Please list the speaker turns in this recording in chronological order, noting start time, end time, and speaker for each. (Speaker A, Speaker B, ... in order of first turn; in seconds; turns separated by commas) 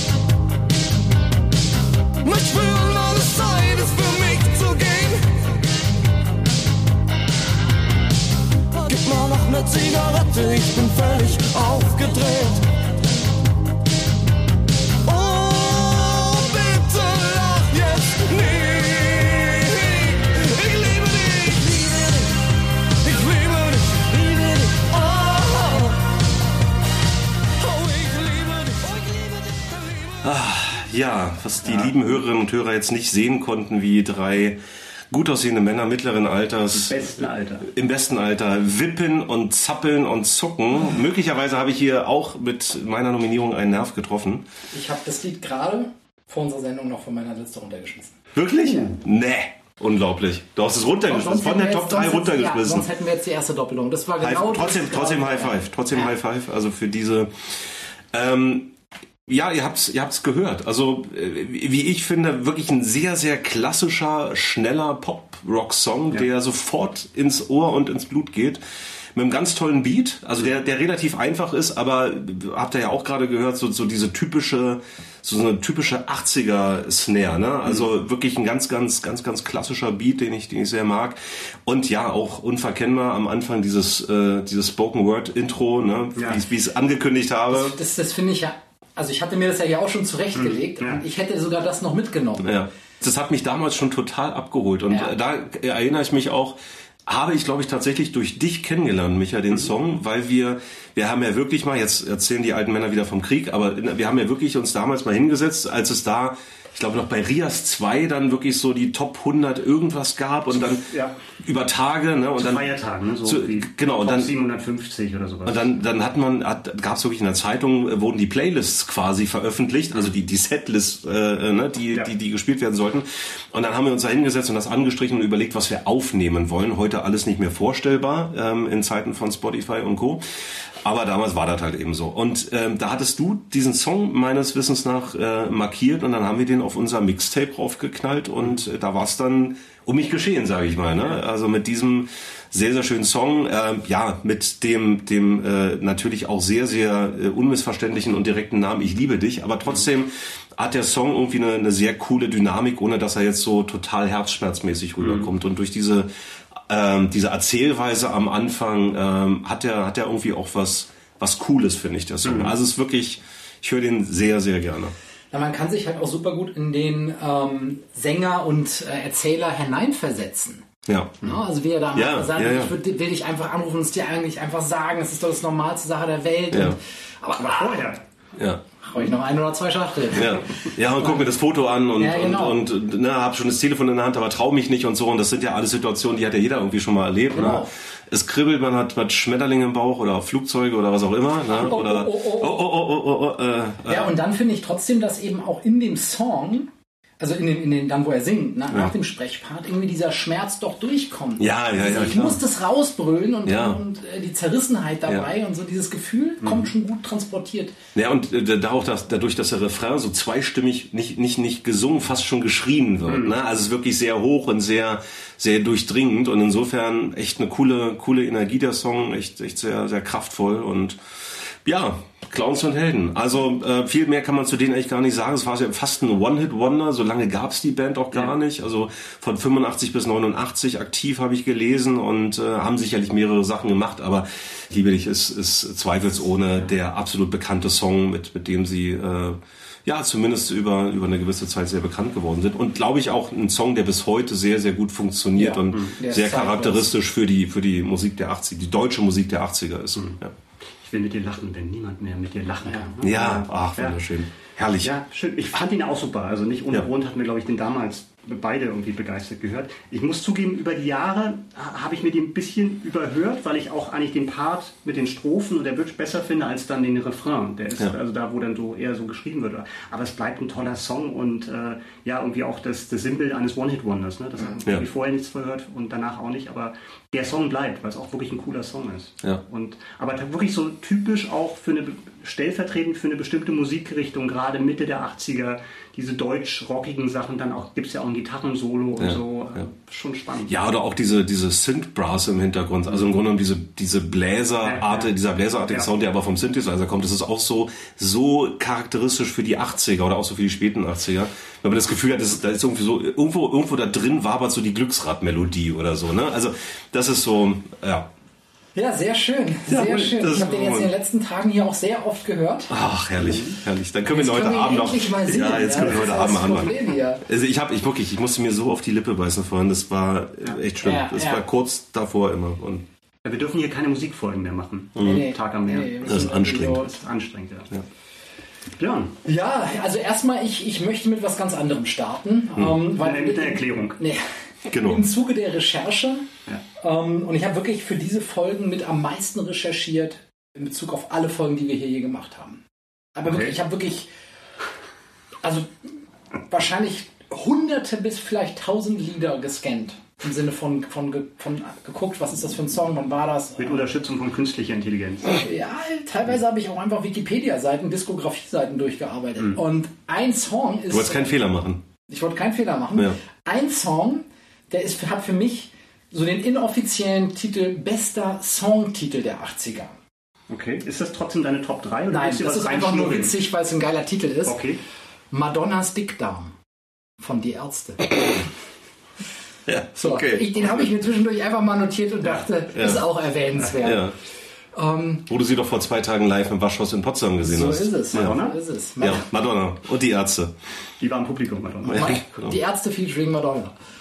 Speaker A: 2.2-5.5, Speaker A: 8.8-12.7, Speaker A: 15.0-22.4, Speaker A: 23.0-26.0, Speaker A: 27.6-30.1, Speaker B: 30.2-34.6, Speaker C: 31.6-31.9, Speaker B: 35.1-44.4, Speaker C: 36.7-37.7, Speaker D: 44.7-48.1, Speaker B: 48.3-52.9, Speaker C: 48.7-49.0, Speaker D: 51.1-56.1, Speaker B: 54.2-58.7, Speaker B: 59.3-68.6, Speaker B: 69.1-87.8, Speaker C: 86.2-86.4, Speaker D: 87.5-92.5, Speaker C: 90.3-91.0, Speaker B: 92.4-110.9, Speaker C: 110.7-111.1, Speaker B: 111.4-112.7, Speaker C: 112.4-115.7, Speaker B: 113.2-114.3, Speaker B: 115.5-130.2, Speaker B: 130.8-164.9, Speaker C: 155.0-155.3, Speaker C: 162.2-162.5, Speaker D: 165.3-170.7, Speaker B: 170.9-171.2, Speaker D: 171.2-177.8, Speaker B: 171.9-172.7, Speaker B: 176.5-176.8, Speaker C: 177.4-178.0, Speaker B: 178.3-178.6, Speaker D: 178.8-181.3, Speaker B: 180.1-194.1, Speaker D: 181.9-182.6, Speaker D: 187.3-187.7, Speaker D: 191.5-192.6, Speaker D: 193.8-207.8, Speaker B: 201.4-202.4, Speaker B: 203.4-203.8, Speaker C: 206.4-206.7, Speaker B: 207.9-250.3, Speaker C: 213.1-213.3, Speaker D: 245.3-246.9, Speaker C: 250.8-254.0, Speaker B: 253.0-254.9, Speaker C: 254.8-290.6, Speaker B: 290.5-308.1, Speaker C: 294.6-295.1, Speaker D: 308.7-312.7, Speaker B: 309.7-310.9, Speaker B: 312.7-322.8, Speaker C: 313.2-313.6, Speaker D: 314.1-317.2, Speaker D: 320.8-321.4, Speaker C: 323.2-327.7, Speaker B: 324.9-325.3, Speaker D: 325.0-326.9, Speaker B: 326.0-326.9, Speaker C: 328.8-329.2, Speaker D: 329.2-336.3, Speaker C: 332.9-334.0, Speaker B: 334.7-335.0, Speaker D: 336.8-342.6, Speaker D: 343.1-344.1, Speaker C: 343.2-343.5, Speaker D: 345.4-345.7, Speaker D: 346.5-353.9, Speaker C: 353.6-355.4, Speaker D: 355.3-361.4, Speaker B: 360.9-361.8, Speaker D: 362.1-369.9, Speaker C: 370.5-373.3, Speaker D: 372.1-374.6, Speaker C: 374.4-374.8, Speaker D: 375.3-376.5, Speaker D: 377.2-378.1, Speaker B: 379.6-380.9, Speaker D: 379.9-384.1, Speaker B: 382.7-383.0, Speaker B: 383.8-384.1, Speaker D: 384.7-385.3, Speaker B: 385.3-388.4, Speaker D: 387.4-389.3, Speaker C: 388.1-388.6, Speaker B: 389.0-390.5, Speaker C: 391.0-392.1, Speaker D: 391.8-393.8, Speaker B: 391.9-392.6